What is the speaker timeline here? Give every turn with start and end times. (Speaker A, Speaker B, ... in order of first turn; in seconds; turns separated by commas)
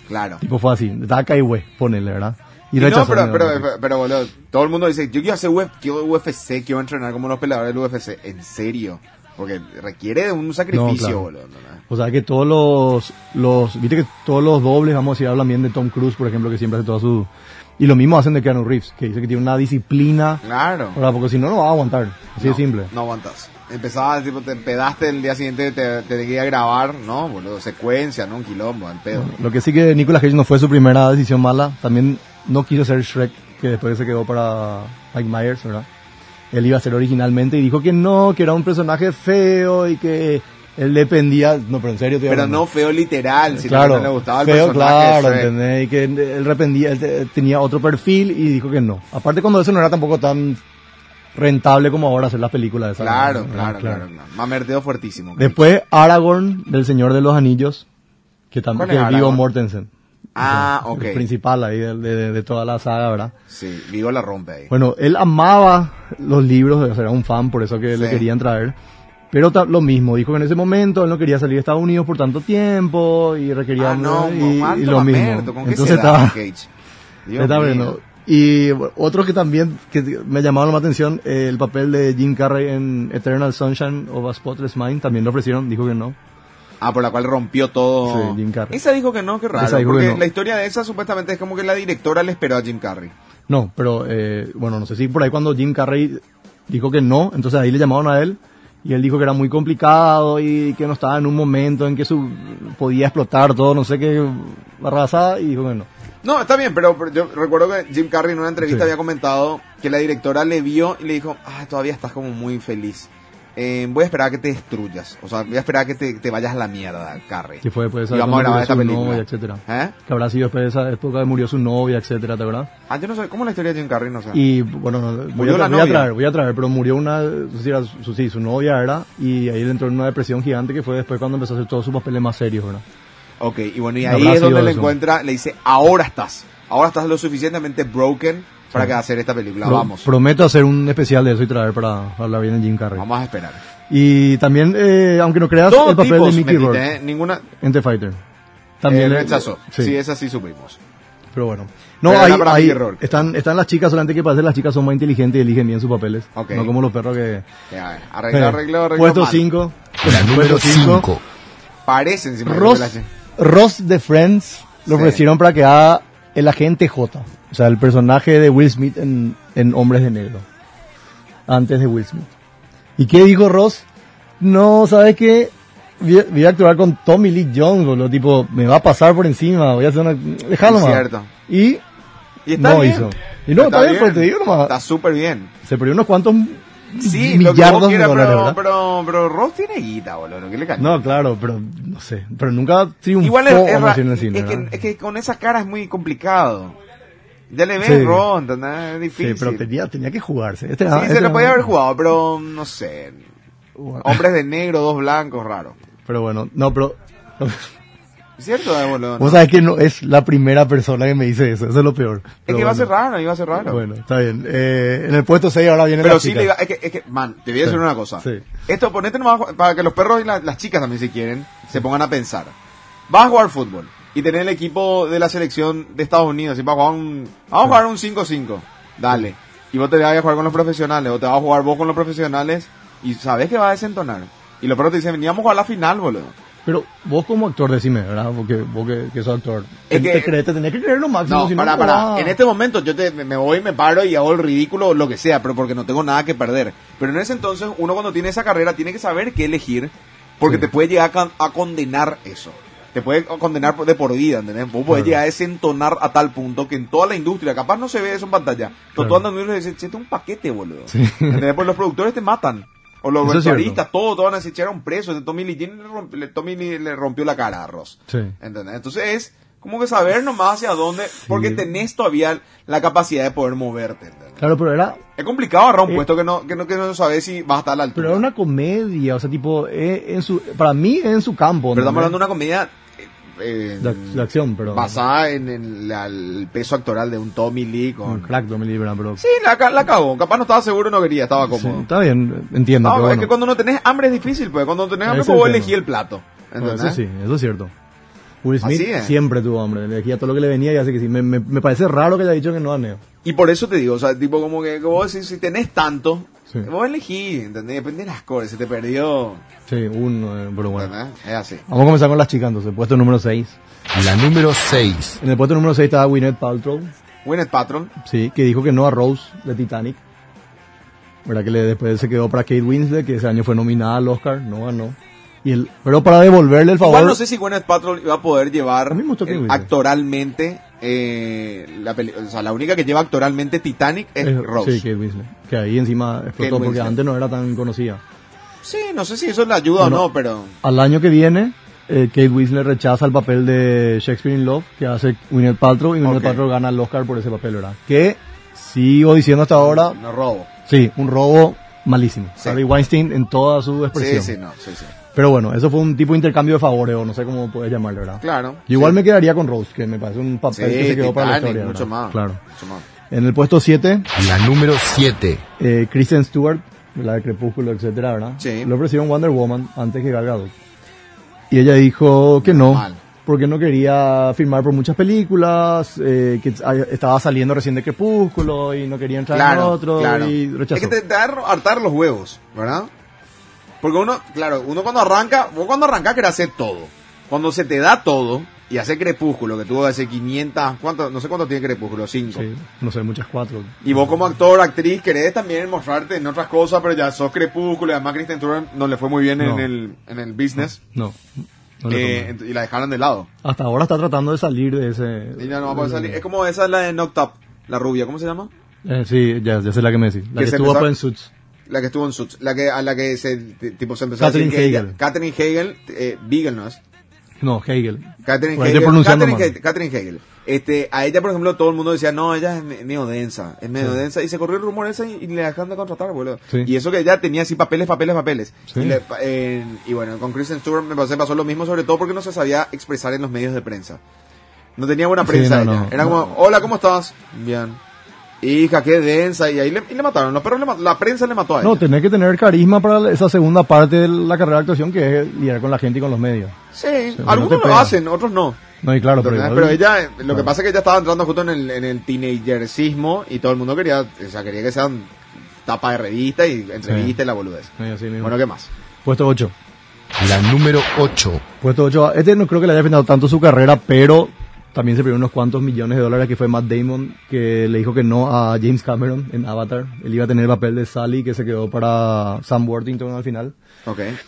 Speaker A: 0.1-0.4, Speaker B: 0.4-3.7, Speaker A: 2.8-11.8, Speaker B: 10.7-11.3, Speaker B: 11.9-20.4, Speaker A: 20.4-21.0, Speaker B: 20.9-22.9, Speaker A: 22.4-29.3, Speaker B: 29.1-35.9, Speaker B: 36.5-42.6, Speaker A: 42.3-45.5, Speaker B: 43.6-50.6, Speaker B: 51.4-54.0, Speaker A: 53.0-55.6, Speaker B: 55.4-57.9, Speaker B: 58.5-59.9, Speaker A: 58.8-59.4, Speaker A: 60.4-61.2, Speaker B: 60.4-63.3, Speaker A: 63.5-64.7, Speaker B: 64.7-68.8, Speaker A: 68.0-68.2, Speaker B: 69.3-76.4, Speaker A: 73.8-76.7, Speaker A: 77.3-78.0, Speaker B: 77.4-86.2, Speaker A: 86.8-93.1, Speaker B: 88.1-88.8, Speaker B: 89.6-90.2, Speaker B: 93.5-105.9, Speaker A: 106.2-120.0, Speaker B: 108.6-108.9, Speaker B: 117.6-122.7, Speaker A: 122.9-124.4, Speaker B: 124.3-132.8, Speaker A: 125.4-126.1, Speaker A: 133.4-140.1, Speaker B: 134.1-134.9, Speaker B: 139.6-143.1, Speaker A: 143.0-143.6, Speaker B: 143.9-146.9, Speaker A: 145.7-147.4, Speaker B: 147.6-148.2, Speaker B: 148.8-150.0, Speaker A: 148.9-150.8, Speaker B: 151.3-157.5, Speaker A: 152.1-153.2, Speaker A: 156.4-156.7, Speaker A: 157.7-159.5, Speaker B: 158.3-161.1, Speaker C: 160.0-161.2, Speaker A: 161.9-163.1, Speaker B: 162.4-170.4, Speaker A: 164.9-165.2, Speaker B: 171.5-172.3, Speaker B: 173.0-173.8, Speaker B: 174.4-181.8, Speaker A: 180.6-181.3, Speaker A: 182.5-185.5, Speaker B: 182.5-184.7, Speaker B: 185.7-188.6, Speaker A: 187.0-191.1, Speaker B: 190.8-194.7, Speaker A: 193.2-196.8, Speaker A: 197.5-199.6, Speaker B: 197.8-198.2, Speaker B: 199.2-201.7, Speaker A: 200.9-203.2, Speaker B: 203.8-204.2, Speaker A: 204.0-205.8, Speaker B: 206.1-207.7, Speaker A: 208.4-209.4, Speaker B: 209.2-212.9, Speaker A: 212.5-213.8, Speaker B: 213.6-216.5, Speaker A: 216.0-222.5, Speaker B: 217.6-218.5, Speaker A: 223.1-236.3, Speaker B: 236.7-242.4, Speaker A: 239.9-240.3, Speaker A: 241.3-274.4, Speaker B: 254.9-255.2, Speaker B: 260.9-261.4, Speaker B: 263.2-263.8, Speaker B: 268.1-268.3, Speaker B: 271.2-271.7, Speaker B: 274.4-275.0, Speaker A: 275.2-278.2, Speaker B: 277.9-282.1, Speaker A: 281.8-288.3, Speaker B: 283.8-284.9, Speaker B: 288.1-289.2, Speaker A: 289.2-291.9, Speaker B: 291.5-293.3, Speaker A: 292.8-297.0, Speaker B: 295.1-295.7, Speaker B: 296.6-297.7, Speaker B: 298.4-303.0, Speaker A: 298.6-299.1, Speaker A: 303.2-309.4, Speaker B: 309.7-310.9, Speaker A: 310.8-311.6, Speaker B: 311.7-313.6, Speaker C: 313.9-315.2, Speaker B: 315.2-316.9, Speaker A: 317.2-317.9, Speaker B: 318.0-320.0, Speaker B: 321.3-327.2, Speaker A: 326.8-334.8, Speaker B: 328.9-329.7, Speaker B: 334.2-338.0, Speaker A: 336.4-337.0, Speaker A: 338.6-340.6, Speaker B: 339.8-340.1, Speaker B: 340.6-350.0, Speaker A: 346.1-346.4, Speaker A: 349.6-350.5, Speaker B: 350.7-354.3, Speaker A: 353.9-354.9, Speaker B: 355.1-362.4, Speaker A: 358.2-359.0, Speaker A: 360.5-362.9, Speaker B: 363.1-364.1, Speaker C: 364.1-365.4, Speaker B: 365.6-370.5, Speaker A: 368.4-368.7, Speaker B: 371.5-380.9, Speaker A: 372.4-373.0, Speaker A: 379.3-382.9, Speaker A: 383.8-392.5, Speaker B: 392.3-394.0, Speaker A: 393.9-400.8, Speaker B: 399.4-399.7, Speaker B: 400.9-401.2, Speaker B: 401.8-402.3, Speaker A: 401.9-403.3, Speaker B: 403.4-406.2, Speaker A: 405.4-408.5, Speaker B: 408.9-411.3, Speaker A: 410.4-410.9, Speaker A: 411.7-416.8, Speaker B: 414.2-414.9, Speaker B: 417.4-419.5, Speaker A: 418.2-434.0, Speaker B: 428.7-429.0, Speaker A: 434.8-437.8, Speaker B: 435.2-436.3, Speaker A: 438.4-441.8, Speaker B: 441.6-446.6, Speaker A: 446.7-448.6, Speaker B: 447.2-448.0, Speaker B: 448.8-450.5, Speaker A: 449.2-455.1, Speaker A: 455.7-458.7, Speaker B: 456.9-457.1, Speaker B: 457.8-458.4, Speaker B: 459.1-459.5, Speaker C: 460.2-461.4, Speaker B: 461.6-473.5, Speaker A: 473.9-474.2